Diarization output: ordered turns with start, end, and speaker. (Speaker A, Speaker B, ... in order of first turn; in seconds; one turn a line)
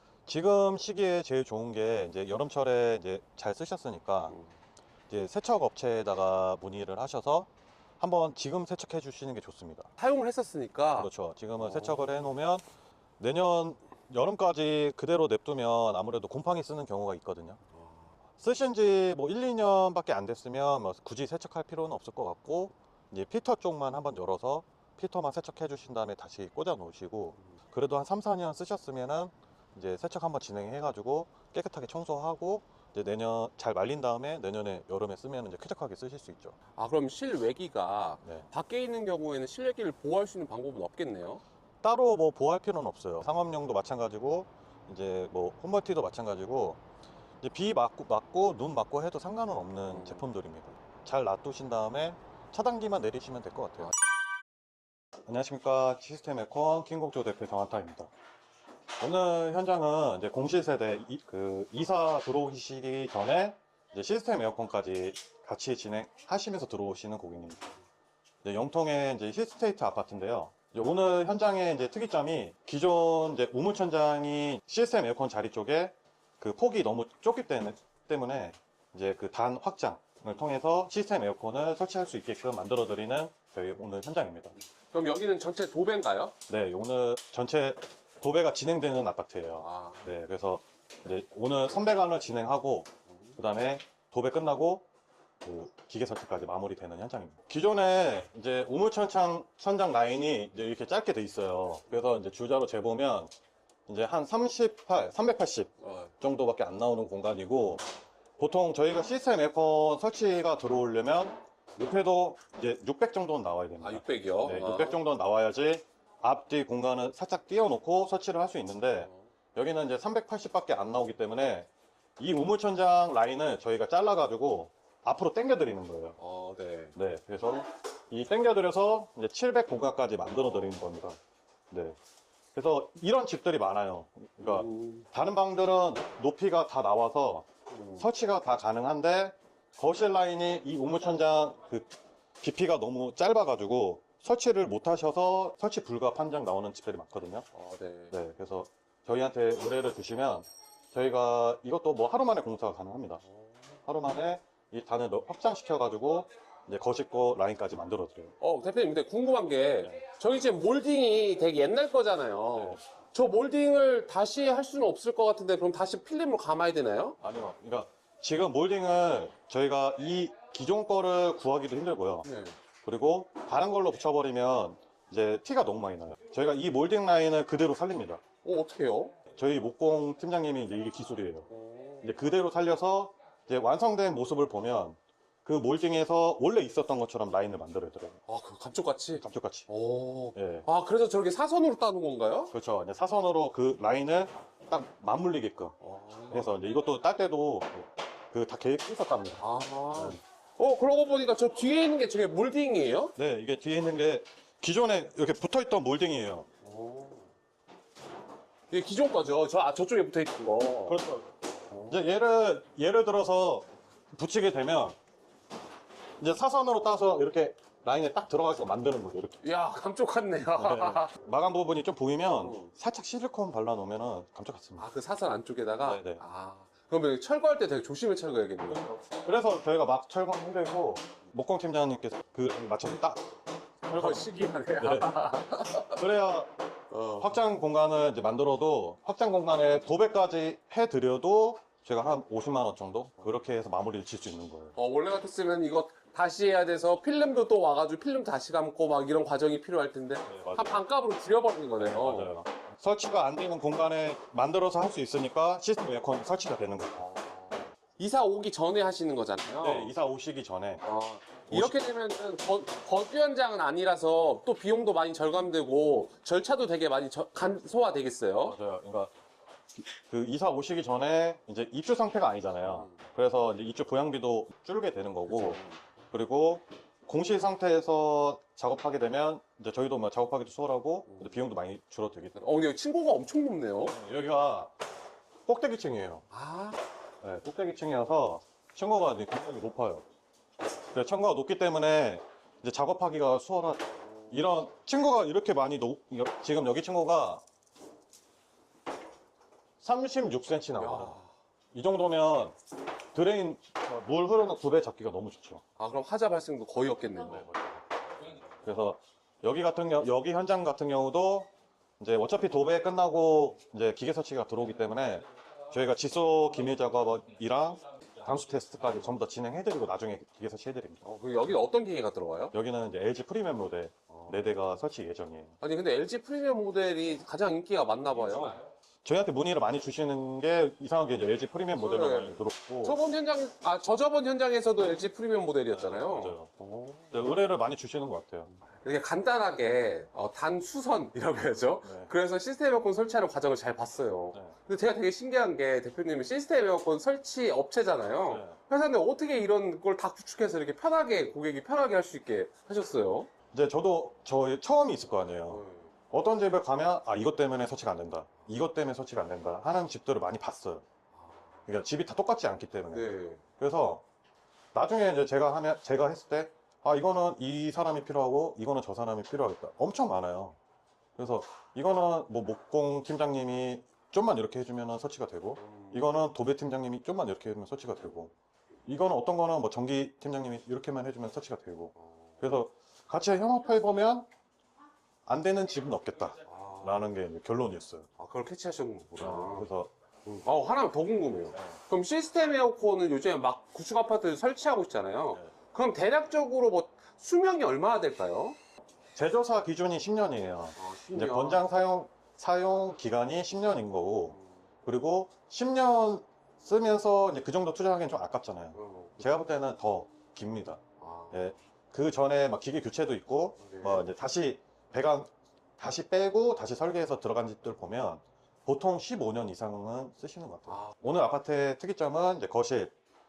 Speaker A: 0.3-4.4
Speaker A: 5.1-7.5
Speaker A: 8.0-9.9
Speaker B: 10.0-12.0
Speaker A: 11.0-12.6
Speaker A: 13.2-17.6
Speaker B: 17.7-18.1
Speaker A: 18.4-36.6
Speaker B: 36.8-41.4
Speaker A: 41.8-46.8
Speaker A: 47.4-53.9
Speaker B: 49.9-50.2
Speaker A: 55.3-58.1
Speaker A: 59.0-67.7
Speaker A: 68.4-84.5
Speaker B: 84.9-86.3
Speaker A: 86.5-94.9
Speaker B: 89.6-90.1
Speaker A: 95.4-103.3
Speaker A: 103.9-107.8
Speaker B: 105.8-106.1
Speaker A: 108.4-126.2
Speaker B: 113.8-115.0
Speaker B: 118.9-119.3
Speaker B: 126.2-127.0
Speaker A: 127.0-131.2
Speaker A: 131.7-132.0
Speaker A: 132.6-137.5
Speaker B: 134.4-135.1
Speaker B: 137.7-138.1
Speaker A: 138.0-141.9
Speaker A: 142.4-147.5
Speaker B: 147.5-148.2
Speaker A: 148.1-153.2
Speaker B: 153.2-153.6
Speaker A: 153.9-158.3
Speaker B: 158.4-167.2
Speaker A: 167.2-172.3
Speaker B: 172.2-172.6
Speaker A: 172.8-178.2
Speaker B: 178.4-179.1
Speaker A: 179.3-181.5
Speaker B: 181.5-182.1
Speaker A: 182.0-188.2
Speaker B: 188.3-192.5
Speaker A: 189.2-189.7
Speaker A: 190.3-190.7
Speaker A: 192.5-195.8
Speaker B: 195.8-196.5
Speaker A: 196.3-199.4
Speaker B: 199.4-203.1
Speaker A: 199.9-200.2
Speaker A: 203.2-206.5
Speaker B: 206.6-207.3
Speaker B: 208.7-211.0
Speaker A: 210.8-211.3
Speaker A: 211.9-215.0
Speaker A: 216.2-219.4
Speaker B: 219.4-221.1
Speaker A: 220.6-224.9
Speaker B: 222.3-222.7
Speaker B: 224.8-228.9
Speaker A: 225.8-226.2
Speaker A: 228.7-233.2
Speaker A: 233.8-236.5
Speaker B: 233.9-236.0
Speaker B: 236.9-237.4
Speaker A: 237.2-244.7
Speaker B: 244.8-252.3
Speaker A: 250.3-250.8
Speaker A: 251.8-257.1
Speaker B: 257.0-259.9
Speaker A: 259.6-260.8
Speaker B: 260.8-268.6
Speaker A: 261.5-261.8
Speaker A: 268.4-269.1
Speaker A: 270.1-275.6
Speaker B: 272.7-273.0
Speaker B: 275.3-275.8
Speaker A: 276.1-282.4
Speaker B: 281.1-281.4
Speaker B: 282.4-283.9
Speaker A: 283.8-284.7
Speaker A: 285.5-286.2
Speaker B: 286.3-286.8
Speaker A: 287.2-290.0
Speaker A: 290.9-297.4
Speaker A: 299.8-301.2
Speaker B: 300.8-301.3
Speaker A: 301.7-302.6
Speaker A: 303.1-305.6
Speaker B: 305.8-307.5
Speaker A: 307.3-307.8
Speaker A: 308.6-321.0
Speaker B: 321.0-322.5
Speaker A: 322.5-325.6
Speaker B: 324.1-324.5
Speaker B: 325.6-328.6
Speaker A: 329.0-333.0
Speaker B: 331.8-337.1
Speaker A: 335.7-336.5
Speaker A: 337.1-338.5
Speaker B: 338.8-353.3
Speaker A: 341.8-342.1
Speaker A: 348.3-348.6
Speaker A: 353.5-360.8
Speaker B: 355.5-355.9
Speaker B: 361.1-361.4
Speaker A: 361.7-364.0
Speaker B: 362.9-363.4
Speaker A: 364.7-370.6
Speaker A: 371.2-378.3
Speaker B: 375.6-376.1
Speaker A: 378.9-384.3
Speaker A: 385.3-388.1
Speaker B: 386.4-387.0
Speaker B: 388.2-389.7
Speaker A: 389.2-389.9
Speaker B: 390.3-398.6
Speaker A: 391.5-391.8
Speaker A: 399.1-410.8
Speaker B: 400.8-401.6
Speaker B: 408.8-409.2
Speaker B: 411.0-411.4
Speaker A: 411.3-422.9
Speaker B: 413.6-414.1
Speaker B: 420.7-421.0